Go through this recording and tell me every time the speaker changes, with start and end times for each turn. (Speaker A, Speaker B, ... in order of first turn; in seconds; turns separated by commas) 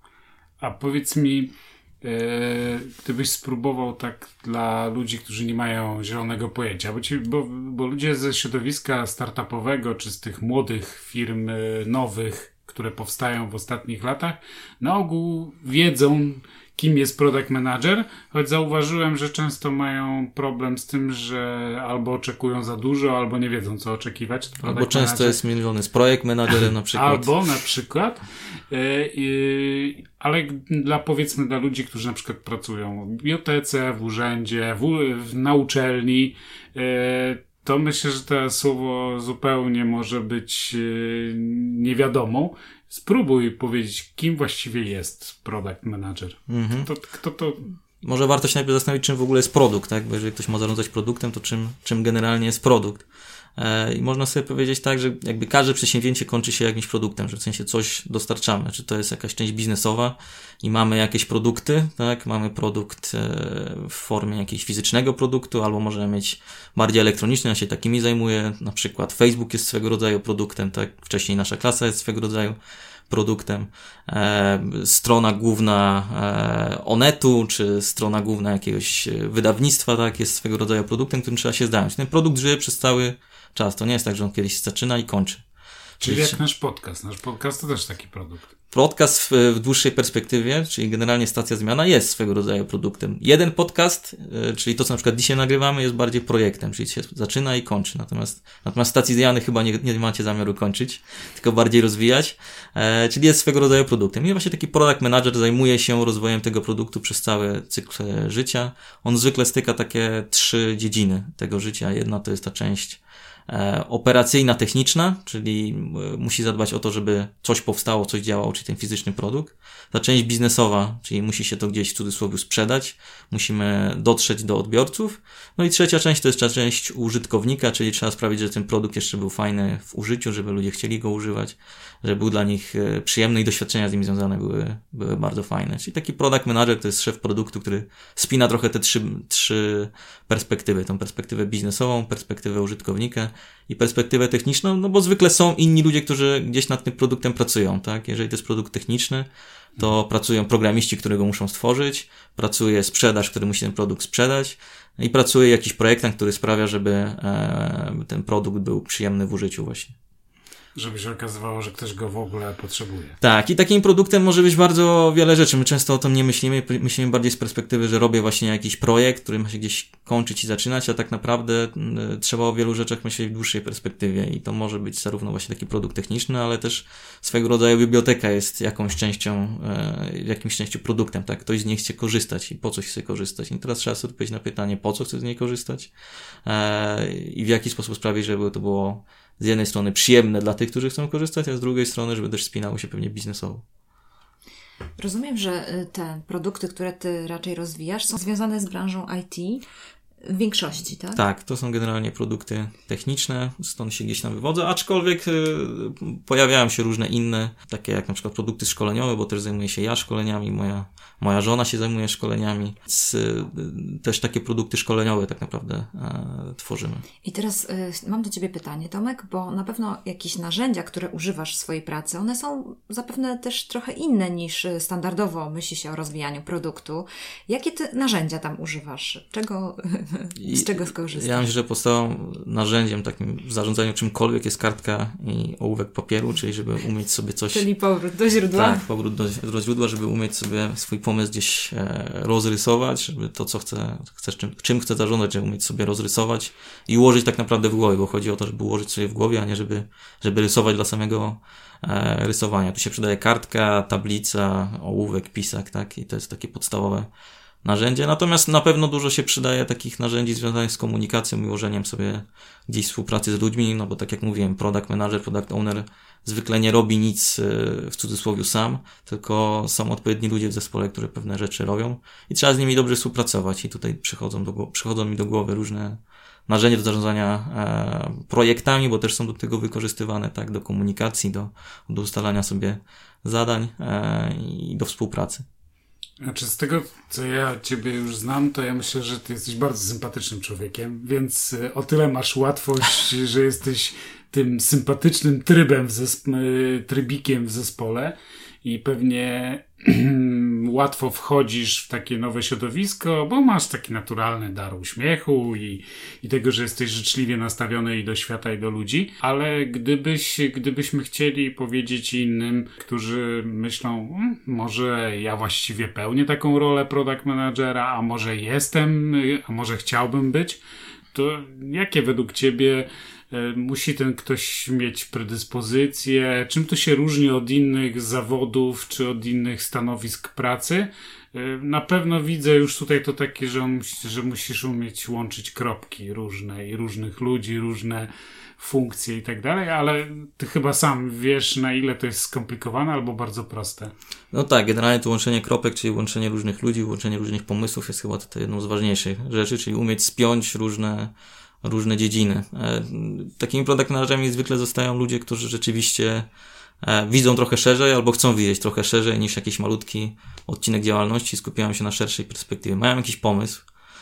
Speaker A: 0.6-25.4, Speaker B: 24.6-27.3, Speaker A: 26.9-47.6, Speaker B: 46.5-46.9, Speaker B: 48.0-53.0, Speaker B: 53.5-72.6, Speaker B: 73.1-85.4, Speaker A: 86.0-88.5, Speaker B: 86.0-86.4, Speaker B: 88.7-159.9, Speaker A: 160.8-163.2, Speaker B: 163.2-185.9, Speaker B: 186.4-193.6, Speaker C: 195.0-199.6, Speaker C: 200.2-201.2, Speaker B: 201.1-217.0, Speaker C: 217.2-231.5, Speaker B: 230.4-237.6, Speaker C: 237.5-238.8, Speaker B: 238.5-257.1, Speaker B: 257.6-285.4, Speaker A: 286.2-320.6, Speaker A: 321.1-343.9, Speaker B: 344.3-351.1, Speaker B: 351.6-356.3, Speaker B: 356.8-363.6